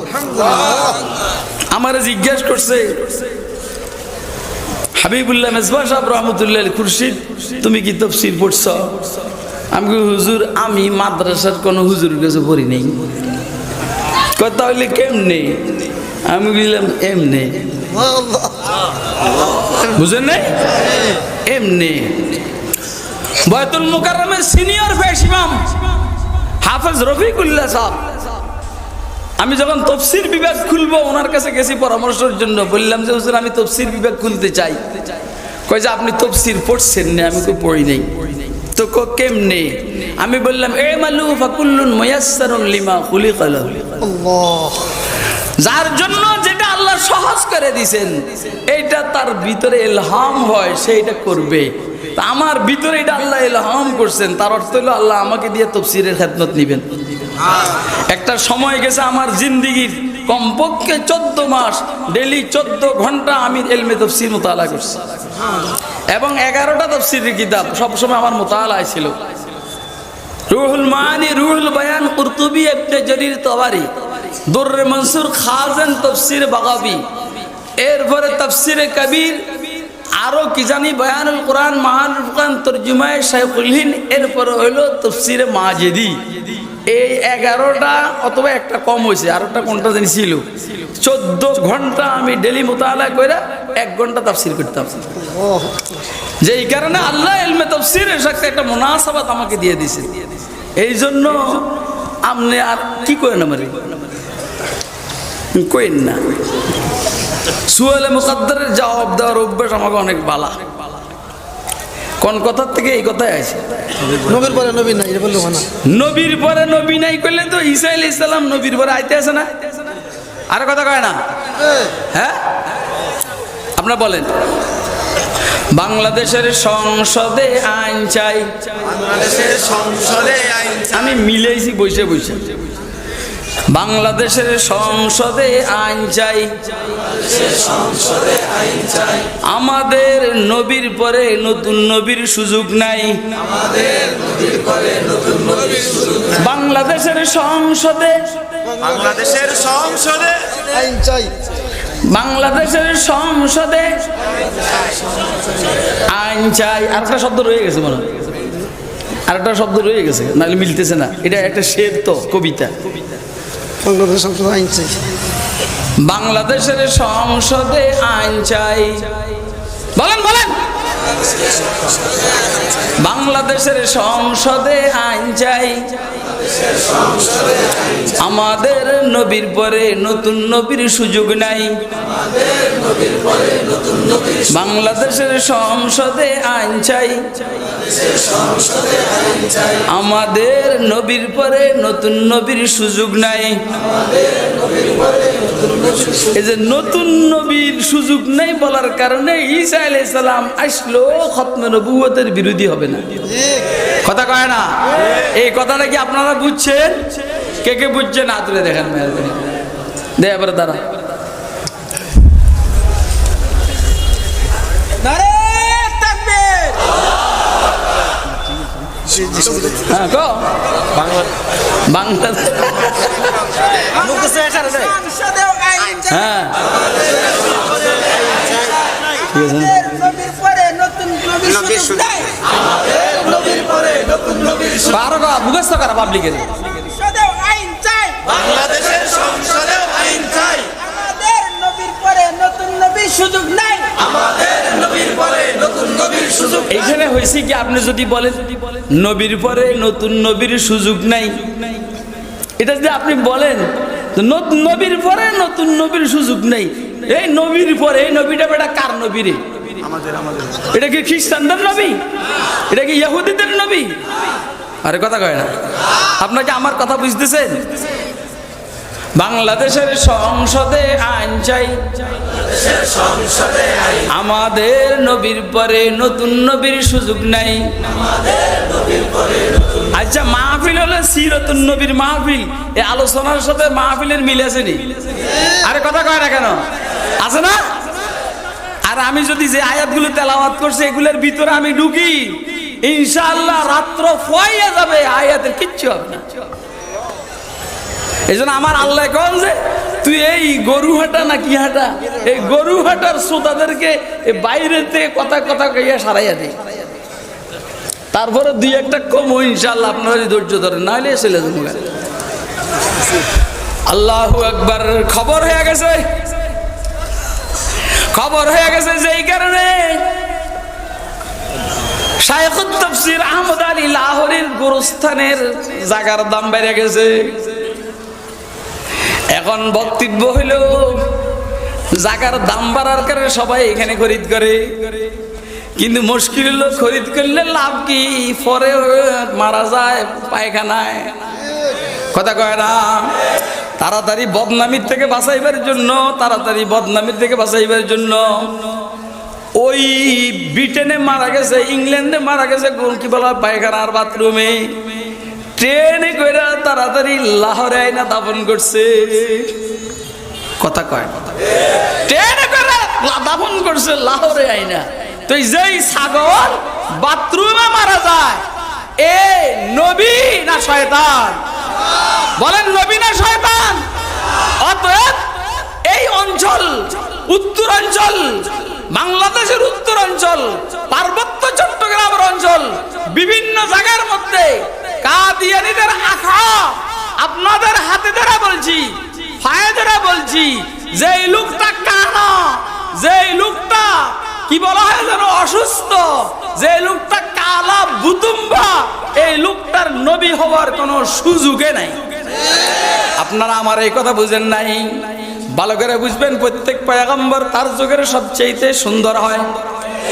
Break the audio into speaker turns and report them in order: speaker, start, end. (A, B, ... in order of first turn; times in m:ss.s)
0:00.3-0:00.8 A
0:01.7-0:03.1 B
0:05.0-0:09.0 B
0:09.7-0:13.1 B
0:14.4-0:17.9 B
0:17.9-0:18.6 A
0:19.8-0:20.6 B
0:21.4-0:22.4 B
0:23.4-0:25.6 B
0:26.6-0:28.1 B
0:29.4-0:34.8 B
0:35.7-0:44.1 B
0:44.1-0:44.9 A
0:45.6-0:57.5 B
0:58.1-1:05.0 B
1:06.1-1:09.2 B
1:10.5-1:13.9 B
1:14.5-1:17.0 B
1:17.8-1:19.4 B
1:20.2-1:35.3 B
1:35.3-1:35.9 A
1:36.4-1:40.3 B
1:40.8-1:41.7 B
1:42.2-1:43.9 B
1:45.5-1:46.3 B
1:47.7-1:50.7 B
1:52.2-1:53.6 B
1:54.1-1:55.7 A
1:55.8-1:59.6 B
2:00.5-2:01.2 B
2:02.1-2:02.5 B
2:03.8-2:04.3 B
2:05.7-2:12.5 B
2:13.7-2:16.6 B
2:19.5-2:23.4 B
2:25.6-2:28.3 B
2:28.8-2:29.6 A
2:30.6-2:31.4 A
2:32.1-2:34.0 B
2:36.1-2:38.2 B
2:39.3-2:42.8 B
2:43.8-2:45.0 A
2:46.0-2:49.2 B
2:50.0-2:50.6 B
2:53.0-2:55.9 B
2:58.2-3:01.8 B
3:04.4-3:07.3 B
3:09.9-3:13.6 B
3:16.2-3:23.4 B
3:24.0-3:27.1 B
3:27.6-3:29.6 B
3:30.2-3:30.9 B
3:35.0-3:36.9 C
3:39.2-3:39.7 A
3:39.8-3:40.5 B
3:41.9-3:43.4 B
3:44.0-3:46.1 C
3:46.1-3:46.6 B
3:49.3-3:50.1 B
3:49.9-3:52.4 C
3:53.0-3:54.4 C
3:54.6-3:56.8 B
3:56.8-4:04.5 C
4:05.2-4:06.2 C
4:06.5-4:11.7 B
4:12.6-4:19.4 B
4:20.5-4:22.0 B
4:22.7-4:24.0 B
4:24.8-4:25.5 B
4:26.2-4:27.6 B
4:29.2-4:31.8 B
4:34.1-4:37.7 B
4:39.9-4:45.0 B
4:45.5-4:46.6 B
4:47.2-4:47.7 B
4:48.9-4:56.3 B
4:58.3-5:06.6 B
5:08.1-5:11.9 B
5:13.9-5:16.2 B
5:18.1-5:20.3 B
5:22.2-5:27.7 B
5:29.3-5:31.2 B
5:32.0-5:35.0 B
5:35.8-5:41.2 B
5:42.1-5:43.2 B
5:43.8-5:48.7 B
5:49.6-5:54.8 B
5:55.6-5:59.6 B
6:00.6-6:01.3 B
6:02.0-6:08.4 B
6:09.0-6:11.4 B
6:12.4-6:13.8 B
6:14.6-6:15.3 B
6:15.8-6:42.0 B
6:43.2-6:49.5 B